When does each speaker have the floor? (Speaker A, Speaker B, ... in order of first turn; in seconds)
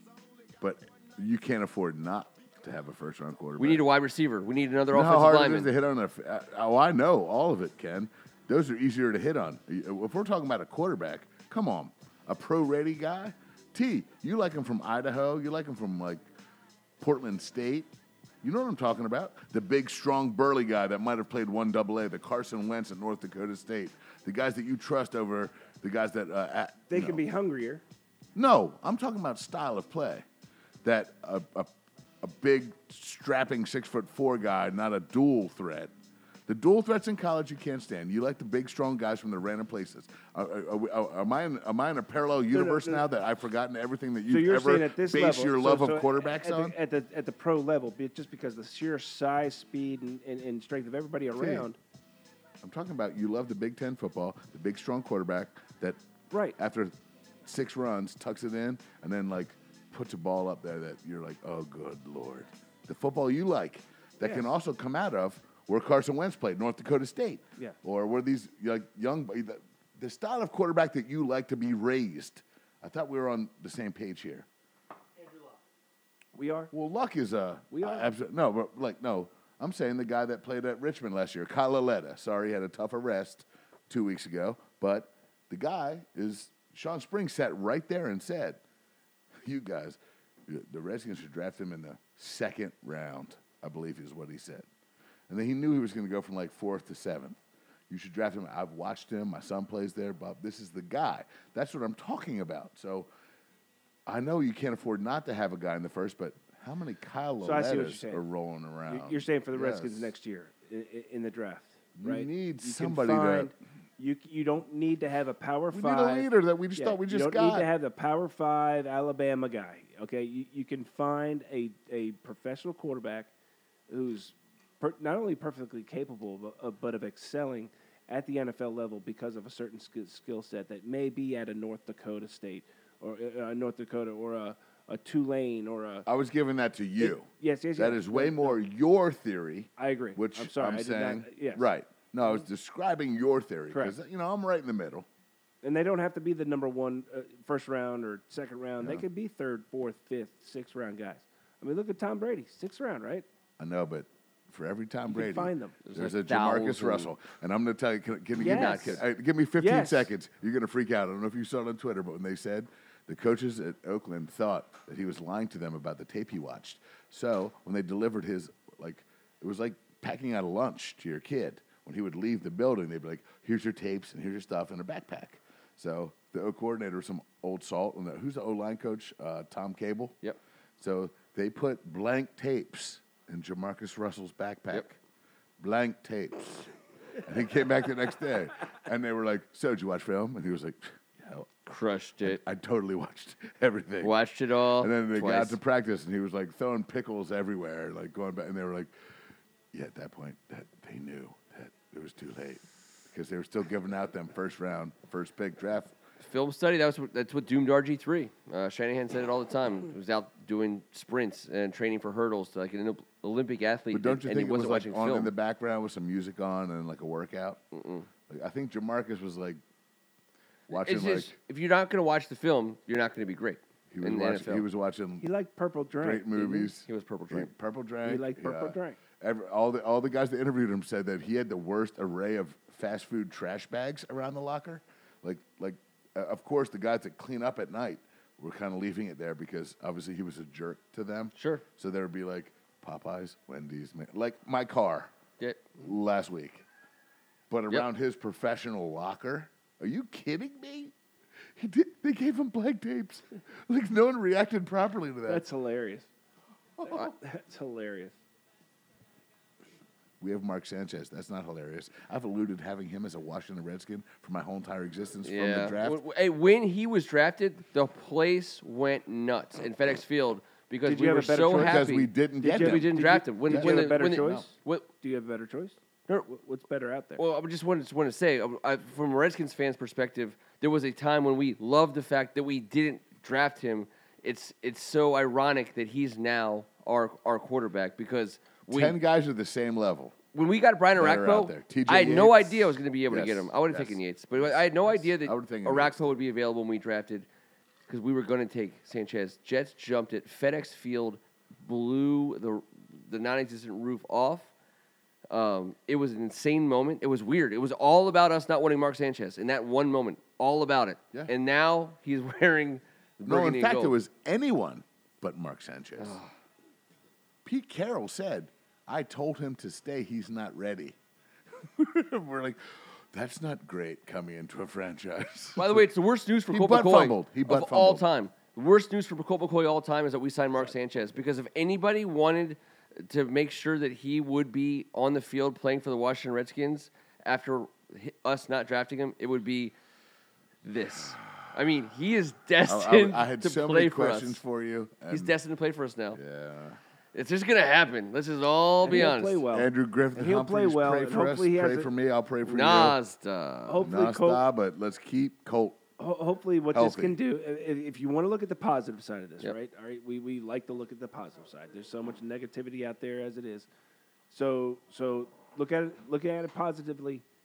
Speaker A: 0.6-3.9, 4.9-16.2, 17.0-17.9, 18.4-27.2, 28.4-30.2, 30.8-35.9, 36.5-46.8, 51.4-51.7, 52.6-56.0, 56.6-56.9, 57.5-74.5, 76.7-88.6, 89.4-94.7, 95.3-97.4, 97.9-103.1, 104.1-110.1, 112.0-113.5, 115.7-117.7, 136.1-145.1, 153.6-180.2, 180.8-185.0, 185.6-186.7, 187.2-191.5, 192.2-194.1, 194.8-198.9, 199.7-205.9, 213.9-217.6, 218.3-219.6, 220.7-221.3, 223.9-225.3, 226.0-245.1, 245.8-246.6, 247.5-250.9, 251.6-255.4, 260.2-266.0, 271.5-274.4, 288.7-290.1, 290.9-296.1, 313.2-316.2, 317.4-321.0, 321.6-325.9, 326.5-328.1, 342.7-345.3, 346.1-346.8, 349.0-353.0, 353.8-355.8, 356.7-357.2
Speaker B: 3.6-5.7, 155.8-157.1, 158.4-159.0, 191.7-192.4, 194.0-195.6, 206.2-215.3, 217.7-218.1, 220.7-224.7, 226.8-227.5, 241.3-241.6, 245.4-245.7, 265.2-274.9, 277.2-289.0, 290.3-297.3, 297.9-304.5, 305.3-313.9, 316.0-316.3, 325.6-339.7, 340.6-344.4, 345.1-346.2, 347.1-349.4, 352.4-353.9
Speaker C: 26.9-27.8, 42.5-43.0, 44.3-51.8, 56.3-56.6, 64.2-64.5, 76.3-76.7, 77.7-78.1, 107.4-108.2, 108.9-123.3, 123.9-136.1, 137.0-138.6, 139.8-141.7, 143.7-144.0, 145.6-153.2, 155.1-155.8, 158.4-159.0, 159.6-160.1, 225.2-226.7, 228.0-229.0, 255.3-256.1, 256.9-258.1, 270.8-271.8, 272.4-277.2, 348.8-351.9, 353.7-354.4, 356.0-363.7, 364.3-367.2